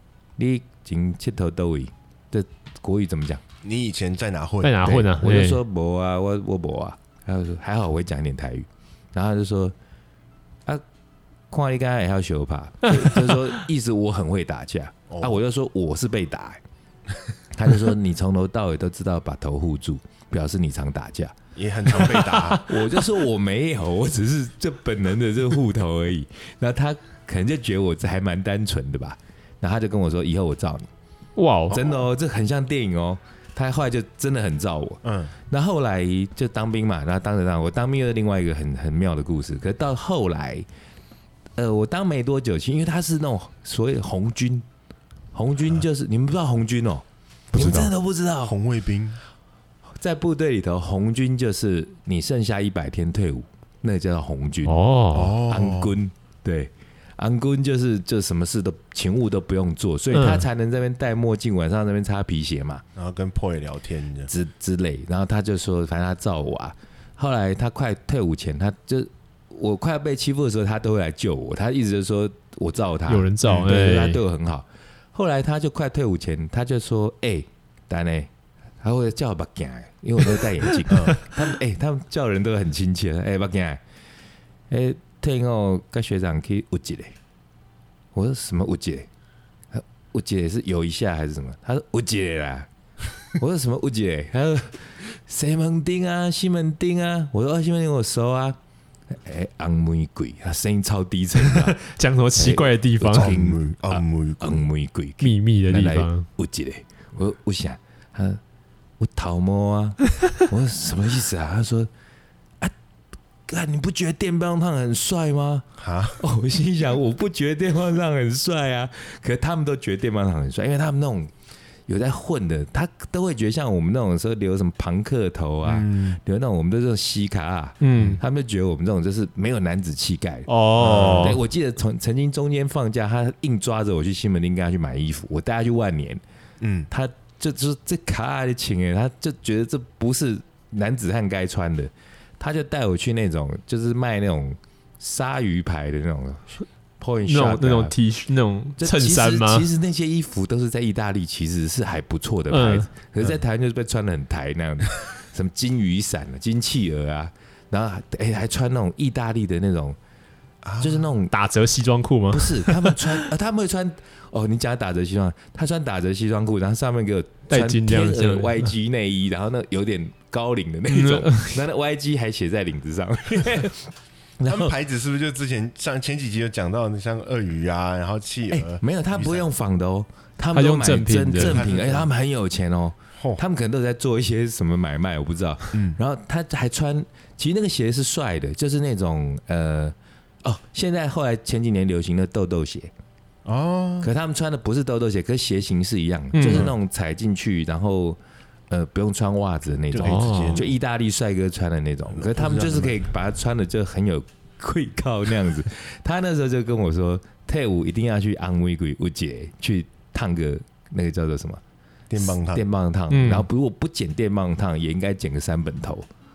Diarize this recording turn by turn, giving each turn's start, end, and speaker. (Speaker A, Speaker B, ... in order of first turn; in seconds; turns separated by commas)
Speaker A: 0.4-3.4, Speaker B: 3.6-5.0, Speaker C: 4.6-5.6, Speaker A: 4.8-9.7, Speaker A: 11.5-16.6, Speaker C: 12.9-13.2, Speaker A: 17.5-21.3, Speaker B: 21.6-22.6, Speaker A: 21.9-30.9, Speaker C: 31.4-31.8, Speaker B: 31.7-32.0, Speaker A: 31.7-40.6, Speaker B: 35.0-35.3, Speaker A: 41.5-44.6, Speaker A: 45.3-48.6, Speaker C: 47.5-47.9, Speaker B: 48.4-49.2, Speaker A: 50.0-54.8, Speaker C: 54.6-55.4, Speaker B: 55.1-56.0, Speaker A: 55.5-62.8, Speaker C: 60.1-60.4, Speaker B: 63.0-64.3, Speaker A: 64.3-78.3, Speaker C: 73.1-74.2, Speaker B: 73.5-73.7, Speaker A: 78.8-83.8, Speaker B: 80.9-81.2, Speaker A: 84.7-87.1, Speaker A: 88.1-89.1, Speaker A: 89.7-92.7, Speaker A: 93.3-98.6, Speaker A: 99.1-101.8, Speaker C: 101.5-103.3, Speaker A: 102.4-108.4, Speaker B: 103.1-104.6, Speaker C: 105.2-106.2, Speaker A: 109.0-111.9, Speaker A: 113.5-121.3, Speaker B: 115.8-116.2, Speaker A: 121.9-136.2, Speaker B: 125.6-126.2, Speaker C: 127.8-128.2, Speaker C: 130.5-131.4, Speaker B: 130.8-131.4, Speaker B: 136.6-136.9, Speaker A: 136.9-147.9, Speaker C: 147.2-149.7, Speaker A: 148.8-159.9, Speaker C: 152.5-152.9, Speaker B: 160.6-161.1, Speaker A: 160.8-161.3, Speaker C: 161.3-163.2, Speaker A: 162.3-173.9, Speaker C: 167.5-168.7, Speaker C: 170.9-171.6, Speaker A: 174.4-174.7, Speaker B: 174.4-179.4, Speaker A: 178.5-192.9, Speaker C: 180.5-181.6, Speaker B: 181.3-182.1, Speaker B: 183.2-183.4, Speaker B: 185.7-186.0, Speaker B: 193.4-194.1, Speaker A: 194.0-211.6, Speaker C: 196.3-196.7, Speaker B: 196.4-196.7, Speaker B: 199.9-200.7, Speaker C: 200.0-200.6, Speaker B: 202.1-203.0, Speaker B: 212.1-212.6, Speaker A: 212.2-216.1, Speaker C: 213.1-213.5